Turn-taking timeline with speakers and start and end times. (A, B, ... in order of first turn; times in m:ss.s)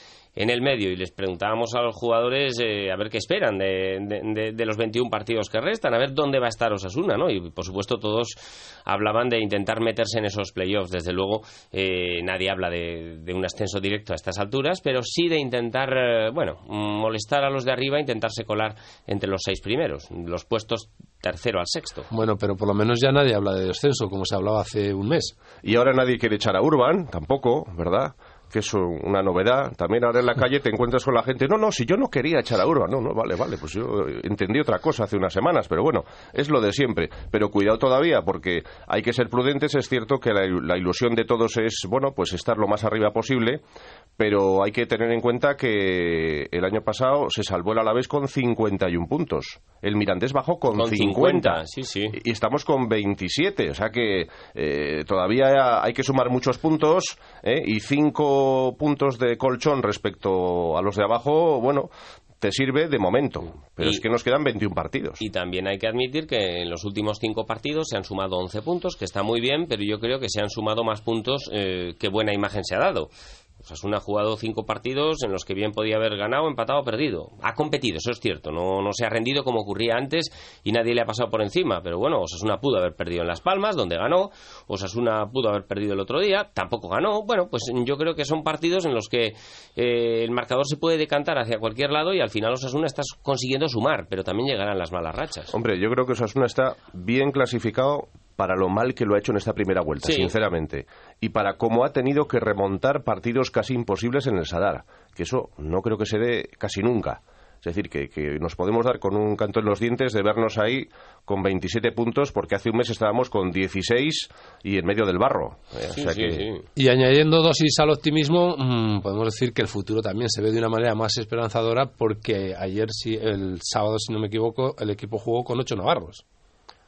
0:00.4-0:22.1 A
0:22.1-0:25.3 B
0:25.6-0:43.6 C
0:44.2-0:51.6 C
0:50.7-0:52.2 A
0:52.1-1:01.9 C
1:02.4-1:05.2 C
1:05.2-1:13.1 A
1:13.6-1:35.5 A
1:35.5-1:56.5 C
1:40.0-1:40.3 A
1:55.9-1:56.7 A
1:56.8-2:06.2 B